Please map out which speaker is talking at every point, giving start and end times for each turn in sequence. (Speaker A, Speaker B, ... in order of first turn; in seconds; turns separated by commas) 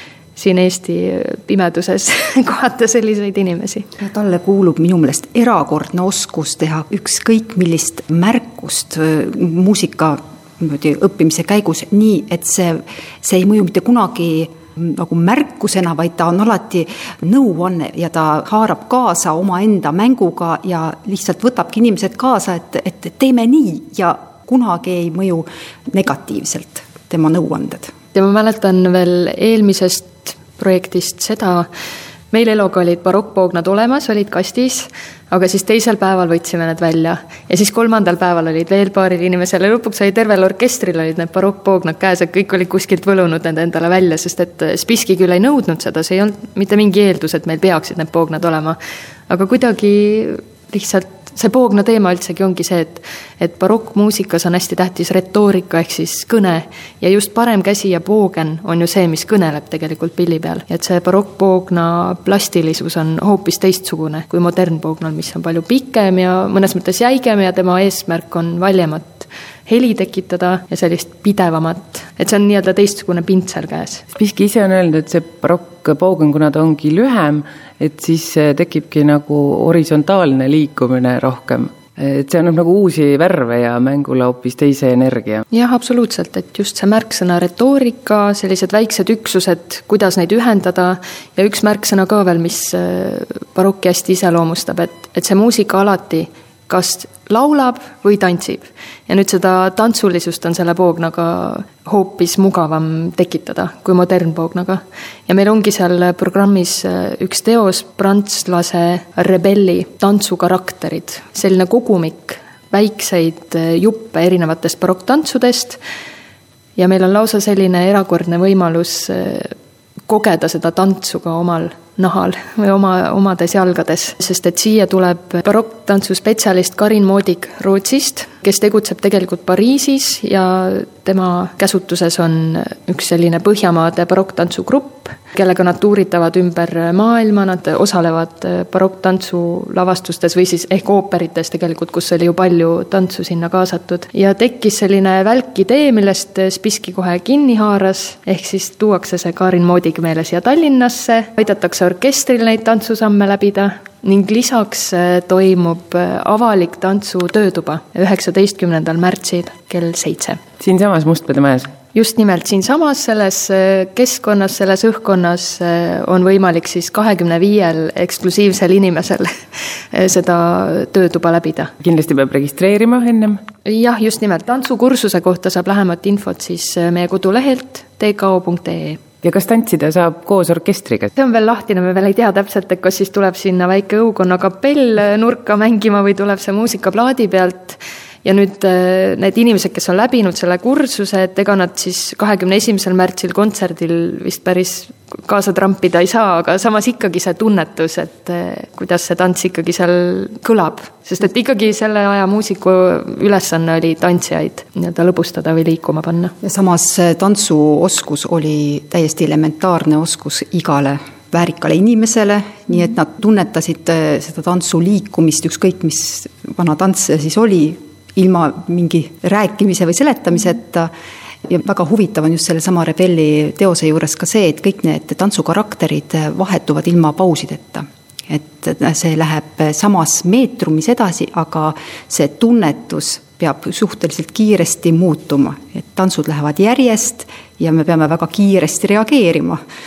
Speaker A: 0.3-3.9, Speaker B: 4.0-27.9, Speaker A: 28.1-31.7, Speaker A: 32.3-74.0, Speaker C: 74.1-85.4, Speaker A: 85.5-115.8, Speaker A: 116.8-119.5, Speaker A: 120.1-160.4, Speaker C: 160.6-161.7, Speaker A: 161.9-171.7, Speaker C: 171.8-173.4, Speaker A: 173.7-179.0, Speaker C: 179.2-181.1, Speaker A: 181.2-206.3, Speaker B: 206.4-220.9, Speaker B: 221.5-239.6